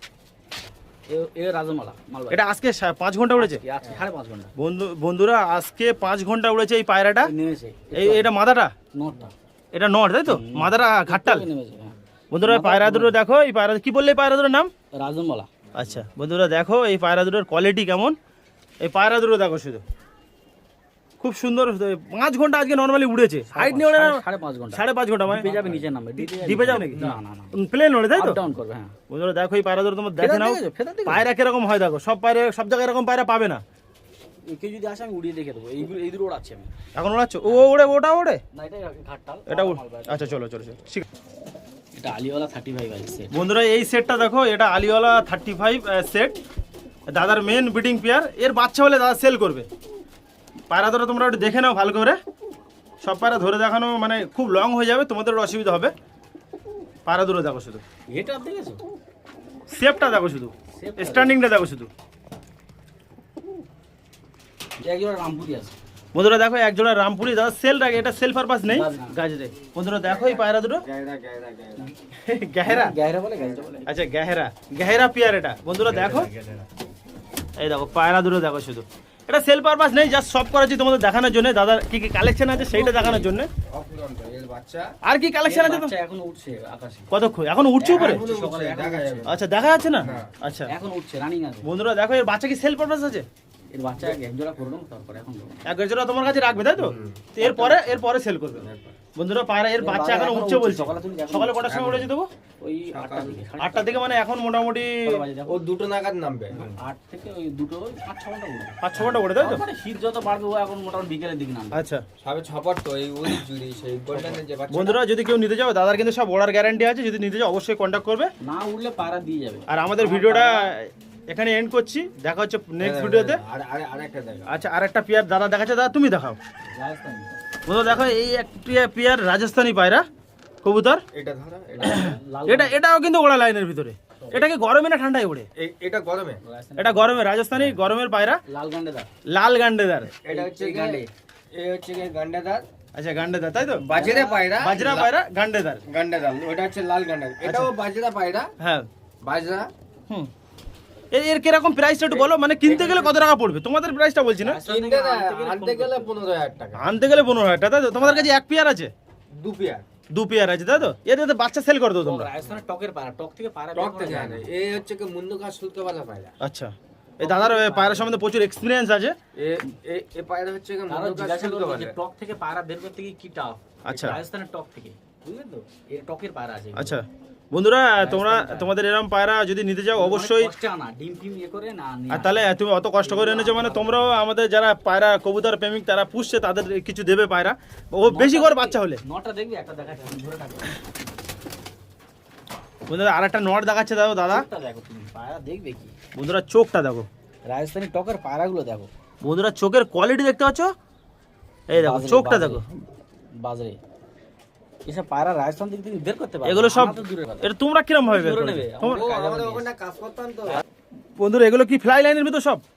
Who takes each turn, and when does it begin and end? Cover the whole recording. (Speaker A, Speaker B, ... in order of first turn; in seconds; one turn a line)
Speaker A: 1.1-2.5
Speaker B: 2.3-3.6
Speaker A: 3.4-4.5
Speaker B: 4.6-7.3
Speaker A: 7.2-8.3
Speaker B: 7.9-8.8
Speaker A: 8.9-9.3
Speaker B: 9.7-11.5
Speaker A: 10.3-13.2
Speaker B: 12.3-14.7
Speaker A: 15.0-15.6
Speaker B: 15.7-18.2
Speaker B: 18.8-19.8
Speaker B: 21.2-28.4
Speaker A: 23.5-27.6
Speaker C: 26.8-27.2
Speaker A: 28.1-29.0
Speaker B: 29.1-33.6
Speaker A: 30.2-31.3
Speaker A: 34.5-36.7
Speaker B: 37.0-38.4
Speaker A: 38.5-40.5
Speaker B: 39.5-41.1
Speaker A: 42.0-43.3
Speaker B: 43.3-46.4
Speaker B: 47.1-49.7
Speaker B: 50.7-52.2
Speaker B: 53.0-55.9
Speaker B: 57.1-57.8
Speaker A: 58.1-58.8
Speaker B: 59.7-61.9
Speaker A: 60.7-61.4
Speaker A: 64.8-65.8
Speaker B: 66.1-70.8
Speaker A: 68.7-69.2
Speaker C: 70.0-71.9
Speaker B: 72.1-73.0
Speaker A: 72.6-73.9
Speaker B: 73.8-76.3
Speaker C: 75.8-76.7
Speaker B: 77.6-83.5
Speaker A: 82.5-83.4
Speaker C: 83.6-84.9
Speaker B: 85.0-86.0
Speaker A: 85.4-87.1
Speaker B: 87.1-88.3
Speaker A: 87.8-89.4
Speaker C: 87.9-89.4
Speaker B: 89.2-90.7
Speaker C: 90.0-90.3
Speaker A: 90.7-91.7
Speaker B: 91.6-93.3
Speaker A: 93.7-95.6
Speaker B: 95.7-102.3
Speaker C: 96.8-97.3
Speaker A: 97.4-98.0
Speaker C: 98.6-99.0
Speaker A: 99.8-102.1
Speaker A: 102.6-104.2
Speaker C: 102.9-103.5
Speaker B: 103.6-105.2
Speaker A: 105.0-105.7
Speaker C: 105.5-106.8
Speaker A: 106.5-111.9
Speaker B: 108.8-109.6
Speaker B: 111.7-112.0
Speaker C: 112.2-115.0
Speaker A: 114.1-114.4
Speaker B: 114.7-118.3
Speaker A: 118.4-120.7
Speaker B: 119.7-123.4
Speaker C: 122.8-124.6
Speaker B: 124.5-126.4
Speaker A: 126.7-127.3
Speaker B: 127.7-130.0
Speaker B: 130.6-131.0
Speaker C: 131.1-132.1
Speaker A: 131.7-132.8
Speaker B: 131.8-135.5
Speaker C: 135.6-136.4
Speaker A: 136.4-137.8
Speaker B: 136.8-138.4
Speaker A: 138.5-139.1
Speaker B: 139.3-140.2
Speaker A: 140.2-141.1
Speaker C: 140.2-142.7
Speaker B: 142.9-144.0
Speaker A: 143.8-144.8
Speaker C: 143.8-145.1
Speaker B: 144.5-145.8
Speaker C: 145.9-148.5
Speaker B: 147.4-147.7
Speaker B: 148.6-148.9
Speaker C: 149.2-149.7
Speaker B: 151.1-154.6
Speaker C: 152.1-153.2
Speaker A: 154.4-156.2
Speaker C: 154.6-156.9
Speaker B: 156.7-158.9
Speaker A: 158.0-158.3
Speaker C: 159.3-159.8
Speaker B: 160.1-162.3
Speaker A: 162.0-164.7
Speaker C: 163.8-166.3
Speaker B: 166.4-169.2
Speaker A: 167.2-168.3
Speaker C: 169.3-172.0
Speaker A: 170.9-177.0
Speaker B: 173.8-174.2
Speaker C: 173.9-174.1
Speaker B: 176.8-180.5
Speaker A: 178.0-178.8
Speaker A: 179.9-182.5
Speaker B: 182.1-189.0
Speaker A: 183.0-184.2
Speaker A: 188.1-190.8
Speaker B: 192.9-194.5
Speaker A: 194.3-196.0
Speaker B: 196.1-197.1
Speaker A: 197.5-198.9
Speaker B: 199.2-200.7
Speaker B: 201.7-202.7
Speaker A: 201.7-202.6
Speaker A: 203.4-203.8
Speaker A: 204.9-207.5
Speaker B: 206.4-209.1
Speaker A: 208.1-209.7
Speaker C: 208.8-210.6
Speaker B: 211.2-212.6